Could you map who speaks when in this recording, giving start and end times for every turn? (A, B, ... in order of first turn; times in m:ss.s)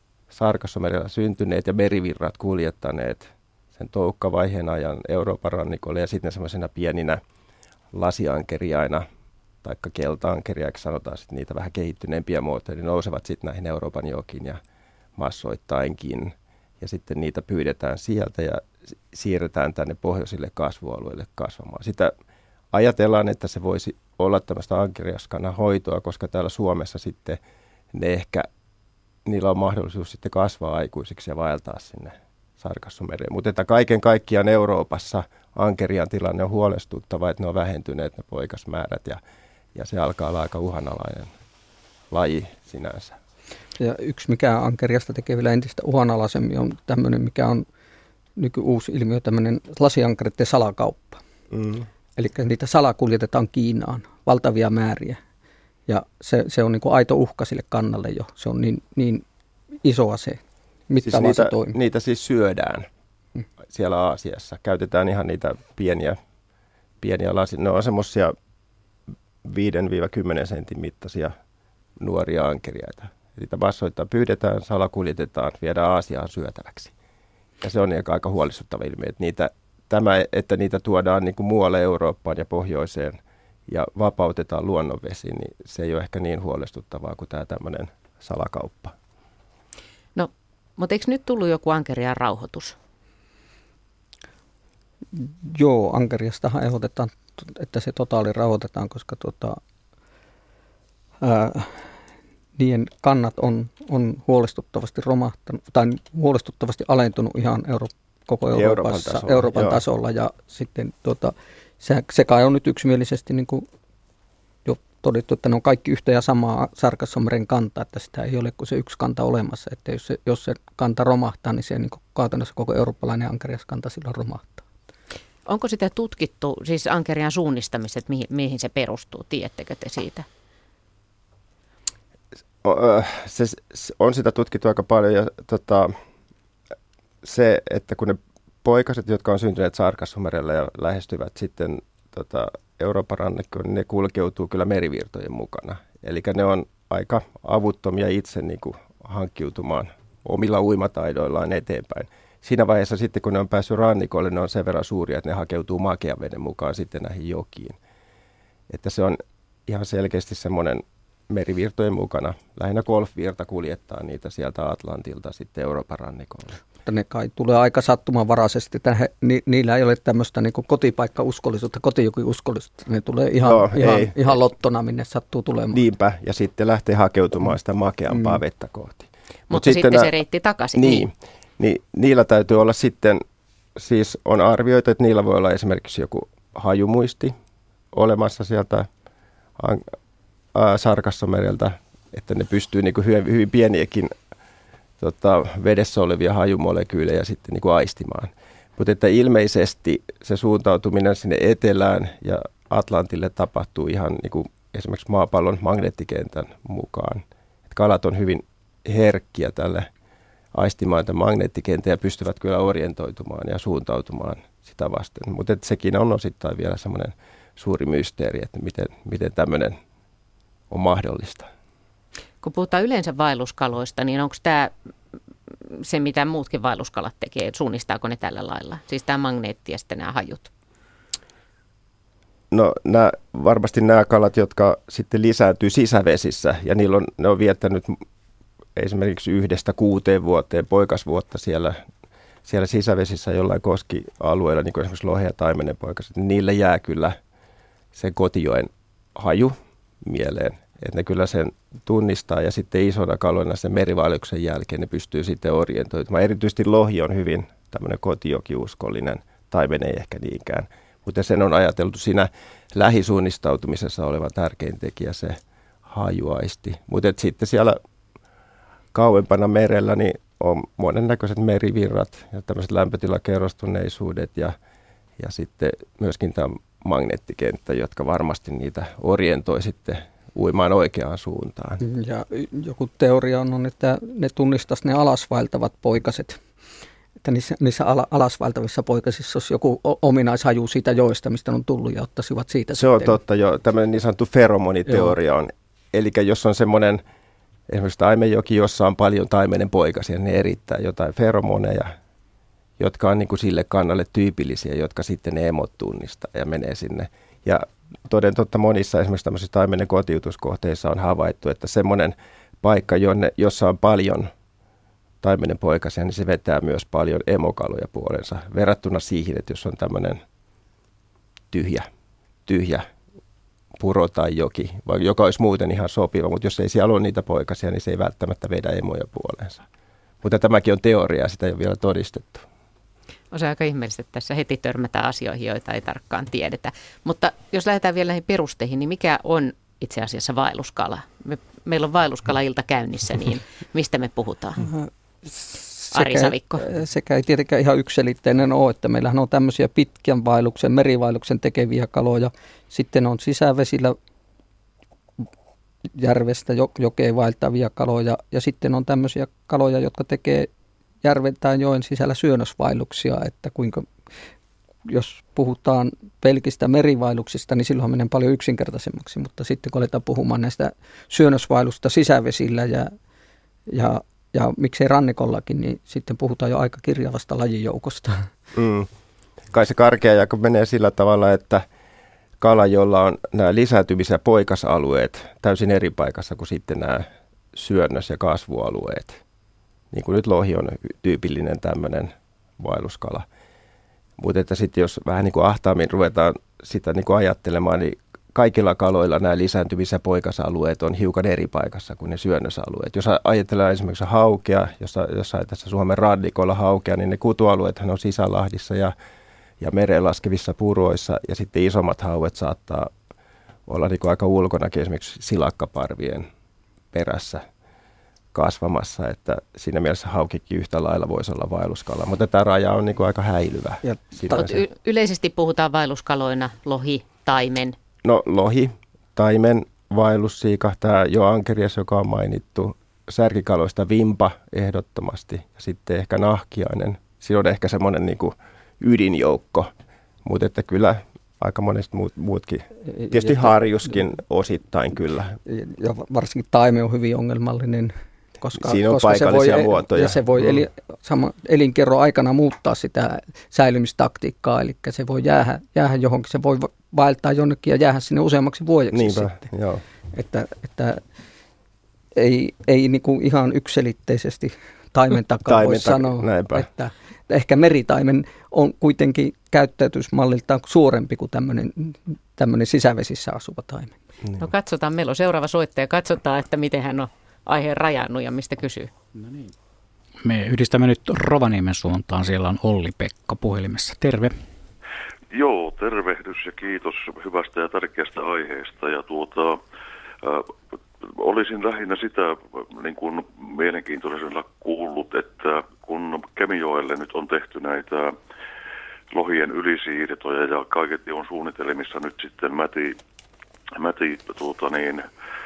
0:00.3-0:07.2 A
0:07.9-0:09.0 A
0:09.6-0:14.6 A
0:15.2-0:22.1 A
0:22.7-0:27.4 A
0:27.9-0:28.5 A
0:29.2-0:39.2 A
0:39.7-0:41.3 A
0:42.1-0:43.2 A
0:43.8-0:47.6 B
0:48.4-0:51.2 B
0:51.5-0:51.9 A
0:52.2-0:55.2 B
0:55.9-0:59.2 B
0:59.8-1:01.8 B
1:01.0-1:02.8 A
1:03.7-1:06.2 A
1:07.0-1:08.3 A
1:09.4-1:11.3 A
1:12.0-1:16.9 A
1:17.6-1:23.2 A
1:23.7-1:28.9 A
1:30.1-1:32.8 C
1:35.1-1:39.6 B
1:41.2-1:41.9 B
1:42.6-1:53.6 B
1:48.5-1:49.8 A
1:54.6-2:04.6 B
2:05.4-2:10.2 C
2:12.6-2:15.9 A
2:17.2-2:37.8 A
2:38.7-2:46.6 A
2:46.8-2:55.8 B
2:53.4-2:54.3 A
2:55.7-3:00.1 A
2:59.5-3:01.0 C
3:00.7-3:03.2 A
3:03.8-3:07.3 A
3:07.9-3:08.9 A
3:09.6-3:09.8 A
3:10.5-3:14.1 A
3:15.0-3:29.9 A
3:30.5-3:39.8 A
3:40.7-3:41.5 A
3:42.4-3:44.7 C
3:45.7-3:50.5 C
3:52.5-3:58.0 A
3:58.8-4:01.8 A
4:02.4-4:07.2 A
4:07.9-4:27.8 A
4:28.9-4:34.5 A
4:35.2-4:41.8 A
4:41.8-4:46.4 B
4:47.2-4:53.1 B
4:52.7-4:57.0 A
4:57.7-5:01.9 A
5:02.8-5:14.3 A
5:15.2-5:20.2 A
5:21.5-5:21.9 A
5:22.4-5:22.8 A
5:23.8-5:29.6 A
5:30.2-5:32.4 A
5:33.3-5:44.7 C
5:44.6-5:54.0 B
5:45.9-5:46.6 C
5:56.0-6:00.5 B
6:01.0-6:03.9 B
6:04.9-6:12.9 B
6:13.7-6:18.3 B
6:18.5-6:18.9 A
6:19.5-6:21.6 A
6:22.4-6:29.2 A
6:29.9-6:33.2 A
6:34.2-6:48.9 A
6:49.6-6:52.9 A
6:53.7-6:56.2 A
6:56.9-6:57.4 A
6:58.3-7:04.6 A
7:04.3-7:07.8 C
7:08.0-7:19.7 A
7:20.2-7:25.4 A
7:23.0-7:23.5 B
7:25.4-7:39.4 B
7:28.6-7:30.6 A
7:38.9-7:39.8 A
7:40.1-7:41.0 B
7:42.1-7:54.0 B
7:45.4-7:46.7 A
7:54.4-7:58.9 C
8:00.2-8:04.3 D
8:05.3-8:09.6 E
8:10.2-8:18.2 E
8:19.1-8:23.0 E
8:23.8-8:25.1 E